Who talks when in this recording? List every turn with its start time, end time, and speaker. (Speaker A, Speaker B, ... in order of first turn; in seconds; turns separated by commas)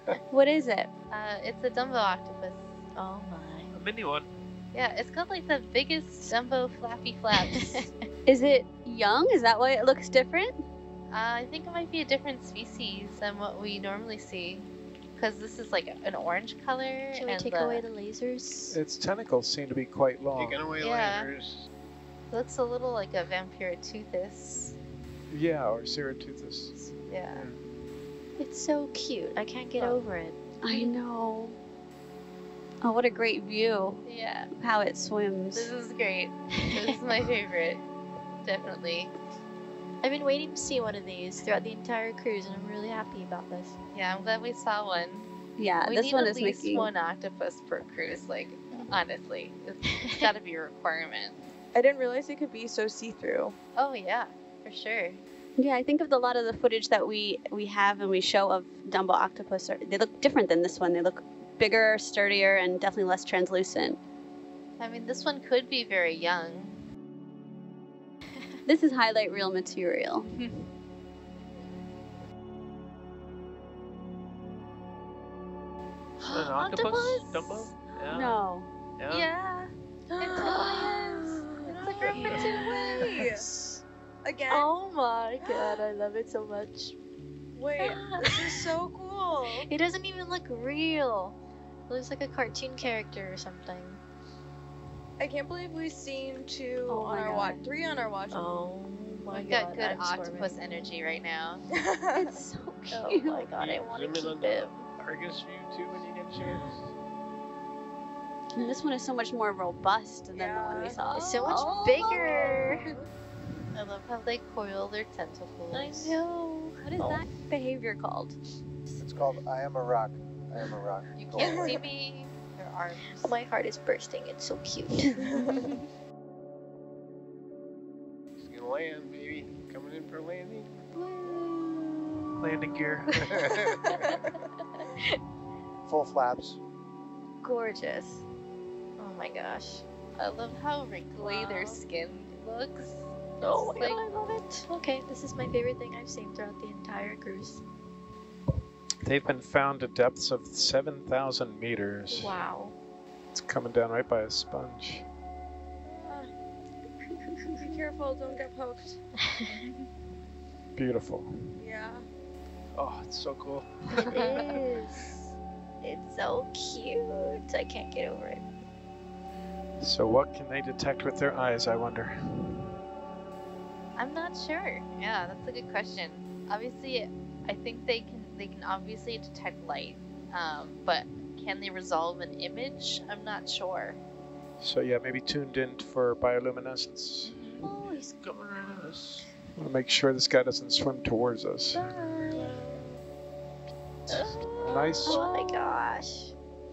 Speaker A: 0.3-0.9, Speaker B: 1.1-2.7, Speaker C: 3.0-3.7, Speaker B: 4.7-7.9, Speaker C: 7.4-7.9, Speaker A: 8.3-10.6, Speaker B: 11.1-17.8, Speaker C: 17.1-18.8, Speaker D: 18.7-20.6, Speaker E: 20.4-21.7, Speaker B: 20.8-21.3, Speaker B: 22.3-24.8, Speaker D: 25.3-26.7, Speaker B: 26.8-27.5, Speaker C: 28.4-30.9, Speaker A: 30.6-31.6, Speaker A: 32.8-35.7, Speaker B: 34.0-34.5, Speaker B: 35.5-37.8, Speaker B: 38.4-39.1, Speaker C: 40.0-43.8, Speaker B: 43.9-45.3, Speaker A: 45.6-46.9, Speaker B: 45.9-51.4, Speaker F: 51.7-53.6, Speaker B: 53.8-55.2, Speaker A: 55.6-64.0, Speaker B: 64.8-66.8, Speaker A: 68.7-70.3, Speaker E: 76.3-78.4, Speaker C: 76.8-77.5, Speaker A: 78.1-78.7, Speaker E: 79.0-79.3, Speaker B: 79.1-81.3, Speaker F: 80.1-83.5, Speaker C: 80.6-80.9, Speaker C: 81.7-83.8, Speaker E: 82.1-82.5, Speaker F: 84.2-84.7, Speaker C: 84.5-87.0, Speaker F: 85.4-85.8, Speaker F: 87.5-89.7, Speaker C: 87.8-88.8, Speaker C: 89.5-91.4, Speaker C: 91.9-94.0, Speaker F: 95.2-98.4, Speaker A: 96.8-97.7, Speaker C: 98.3-100.8, Speaker B: 99.3-101.6, Speaker F: 101.7-102.4, Speaker C: 102.2-104.8, Speaker A: 102.7-103.5, Speaker E: 103.5-106.9, Speaker F: 106.4-106.8, Speaker A: 108.5-112.3, Speaker F: 110.3-111.4, Speaker C: 111.1-112.9, Speaker F: 112.2-113.1, Speaker B: 113.7-116.2, Speaker C: 115.7-117.2, Speaker A: 116.8-118.4, Speaker G: 119.0-121.7, Speaker B: 121.2-123.4, Speaker F: 121.4-121.9, Speaker C: 123.2-125.2, Speaker F: 125.2-125.7, Speaker E: 128.4-130.8, Speaker C: 131.0-132.4, Speaker D: 132.4-133.3, Speaker E: 133.2-133.8, Speaker F: 133.9-134.3, Speaker G: 135.9-136.4, Speaker C: 137.4-138.2, Speaker C: 139.0-139.8, Speaker B: 140.2-144.0, Speaker F: 141.2-141.8, Speaker C: 143.4-147.6, Speaker D: 149.0-152.4, Speaker C: 152.1-152.7, Speaker D: 153.3-155.1, Speaker F: 155.8-156.3, Speaker C: 157.1-157.7, Speaker F: 157.6-159.0, Speaker B: 159.5-159.9, Speaker D: 160.8-161.5, Speaker F: 161.6-162.1, Speaker D: 162.8-163.7, Speaker B: 164.0-164.3, Speaker C: 164.0-165.2, Speaker C: 165.8-168.5, Speaker D: 169.8-172.7, Speaker B: 174.0-184.0, Speaker D: 184.6-187.4, Speaker C: 187.6-188.1, Speaker E: 187.7-189.3, Speaker D: 189.6-191.9, Speaker E: 192.0-192.6, Speaker F: 192.7-193.0, Speaker D: 194.1-195.2, Speaker F: 194.2-195.8, Speaker C: 195.1-196.3